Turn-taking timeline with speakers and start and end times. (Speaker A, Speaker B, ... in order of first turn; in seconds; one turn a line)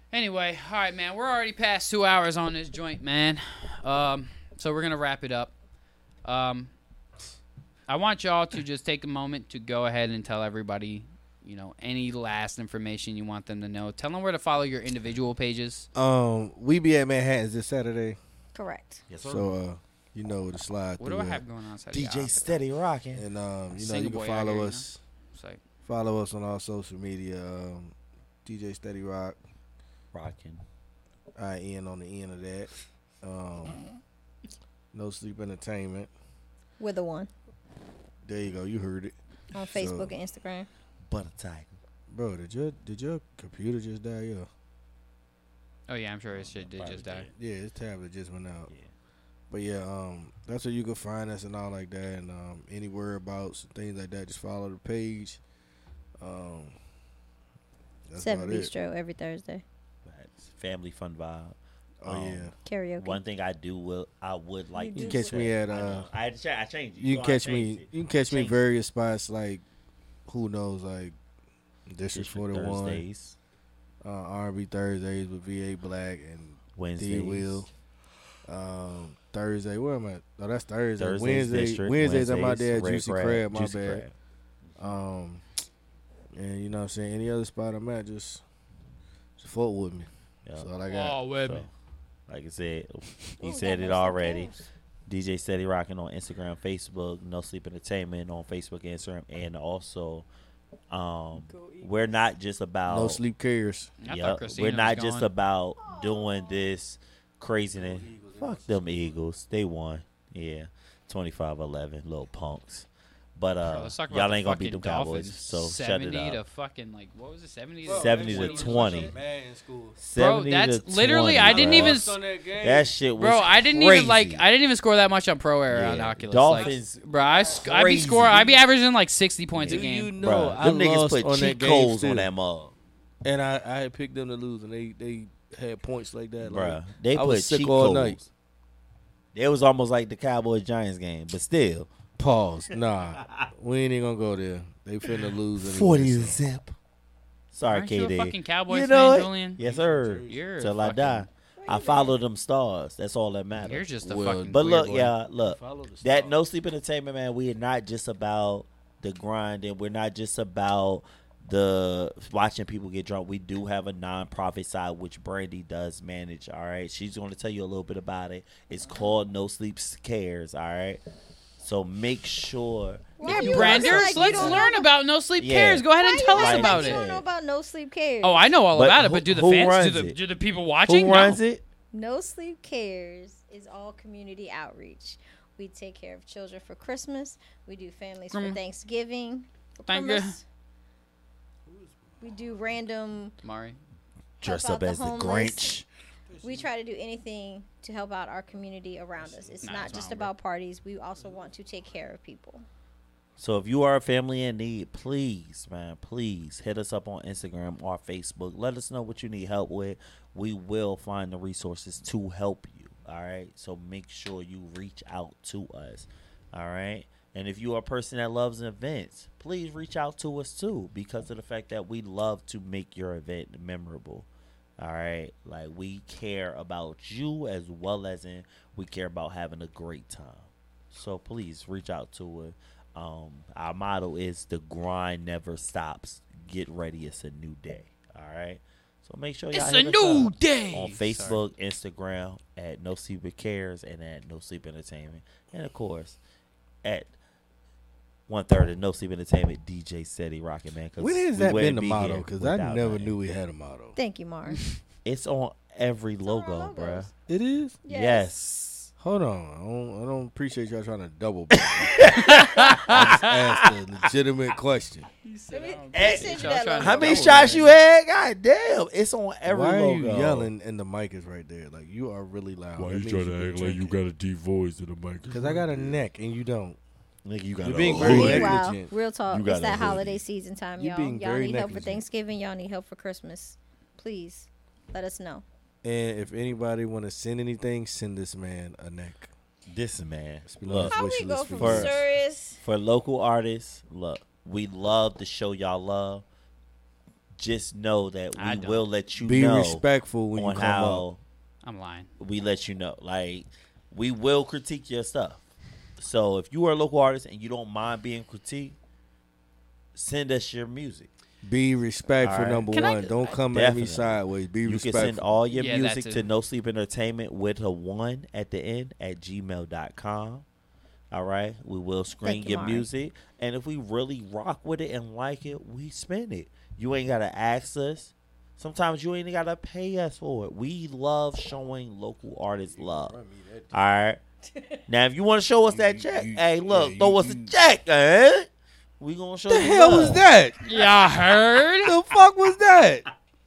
Speaker A: 0.1-5.5
Speaker A: 6.2-6.7
Speaker A: 7.9-15.9
Speaker B: 15.9-18.2
Speaker C: 18.5-19.0
Speaker D: 19.1-19.6
Speaker B: 19.2-21.4
Speaker A: 21.0-22.6
Speaker D: 21.9-23.2
Speaker B: 23.1-25.0
Speaker A: 23.7-25.6
Speaker B: 25.8-27.9
Speaker B: 28.4-29.4
Speaker D: 30.1-30.6
Speaker B: 31.4-32.7
Speaker B: 33.2-33.8
Speaker B: 34.9-36.1
Speaker C: 36.8-37.3
Speaker B: 38.2-39.1
Speaker C: 39.5-40.7
Speaker B: 39.7-40.1
Speaker D: 41.0-41.8
Speaker B: 42.1-44.5
Speaker A: 45.9-47.3
Speaker D: 46.3-47.3
Speaker B: 47.3-48.7
Speaker B: 49.5-55.4
Speaker B: 56.2-56.8
Speaker B: 58.1-58.7
Speaker C: 58.2-59.6
Speaker D: 60.0-68.6
Speaker B: 62.0-62.5
Speaker C: 62.6-63.2
Speaker C: 64.7-65.5
Speaker B: 64.9-66.1
Speaker B: 67.0-69.6
Speaker B: 70.3-71.2
Speaker B: 71.9-73.0
Speaker D: 72.1-73.4
Speaker B: 74.0-77.7
Speaker D: 76.8-77.6
Speaker B: 78.5-84.0
Speaker D: 81.0-84.1
Speaker B: 84.8-85.4
Speaker B: 86.3-88.4
Speaker B: 89.4-91.2
Speaker A: 90.8-91.7
Speaker D: 91.3-91.7
Speaker D: 92.3-94.5
Speaker C: 93.4-94.6
Speaker D: 95.1-100.3
Speaker D: 100.9-103.2
Speaker C: 101.4-102.2
Speaker B: 102.9-103.9
Speaker A: 104.0-105.3
Speaker D: 104.0-116.4
Speaker C: 105.8-106.7
Speaker B: 107.7-109.1
Speaker A: 113.7-119.1
Speaker B: 117.8-120.0
Speaker D: 117.9-119.2
Speaker D: 120.0-122.0
Speaker A: 120.1-122.2
Speaker B: 121.4-122.9
Speaker D: 122.6-124.4
Speaker A: 123.2-130.1
Speaker D: 125.7-128.6
Speaker D: 129.5-132.7
Speaker B: 129.7-132.3
Speaker B: 133.2-138.2
Speaker D: 136.4-138.3
Speaker D: 139.3-141.9
Speaker B: 142.2-146.4
Speaker D: 143.1-143.5
Speaker D: 145.1-146.7
Speaker D: 147.5-171.0
Speaker A: 147.7-149.6
Speaker B: 149.6-150.4
Speaker A: 150.3-151.3
Speaker C: 151.6-152.2
Speaker A: 153.6-155.1
Speaker B: 154.1-154.7
Speaker B: 155.4-156.4
Speaker D: 171.6-174.7
Speaker C: 173.2-174.9
Speaker A: 173.2-177.0
Speaker D: 175.4-177.2
Speaker C: 175.9-178.5
Speaker A: 178.2-181.4
Speaker D: 178.7-180.2
Speaker D: 180.9-181.6
Speaker C: 181.9-190.4
Speaker A: 188.3-188.6
Speaker A: 189.9-190.4
Speaker B: 191.7-192.2
Speaker C: 192.2-193.3
Speaker A: 193.4-193.8
Speaker C: 194.4-195.8
Speaker D: 194.4-195.9
Speaker B: 196.3-196.7
Speaker C: 196.4-202.7
Speaker B: 199.2-200.0
Speaker A: 199.6-200.3
Speaker B: 201.2-201.5
Speaker D: 203.4-224.3
Speaker D: 224.8-246.2
Speaker A: 239.5-241.4
Speaker D: 246.8-247.1
Speaker D: 248.3-253.1
Speaker B: 251.0-253.9
Speaker C: 253.9-254.6
Speaker D: 255.0-257.1
Speaker C: 256.2-257.1
Speaker B: 257.3-257.8
Speaker C: 257.8-258.3
Speaker D: 257.9-258.9
Speaker B: 259.0-262.1
Speaker D: 261.5-263.7
Speaker A: 262.1-263.0
Speaker B: 262.8-265.1
Speaker A: 265.2-267.8
Speaker C: 265.5-267.4
Speaker D: 265.9-270.5
Speaker B: 267.1-267.5
Speaker B: 269.5-273.9
Speaker E: 272.7-276.1
Speaker B: 275.3-276.8
Speaker D: 277.2-278.6
Speaker B: 277.6-278.9
Speaker C: 277.9-285.4
Speaker D: 279.3-280.2
Speaker B: 280.8-282.0
Speaker B: 285.8-289.3
Speaker D: 289.7-291.0
Speaker B: 290.4-292.1
Speaker C: 290.8-292.6
Speaker D: 291.5-291.9
Speaker D: 292.6-296.2
Speaker D: 297.3-301.2
Speaker A: 298.4-298.9
Speaker B: 299.1-301.0
Speaker A: 301.6-302.1
Speaker D: 302.2-305.4
Speaker D: 306.0-308.8
Speaker D: 309.9-311.1
Speaker B: 311.4-315.2
Speaker D: 312.2-312.7
Speaker A: 312.7-313.4
Speaker D: 313.5-320.4
Speaker A: 315.5-316.2
Speaker D: 321.1-333.2
Speaker C: 322.2-322.9
Speaker B: 332.6-333.8
Speaker D: 333.7-334.2
Speaker D: 334.9-338.5
Speaker B: 335.7-337.5
Speaker D: 339.0-340.2
Speaker B: 339.5-340.6
Speaker A: 340.6-341.9
Speaker B: 341.8-343.0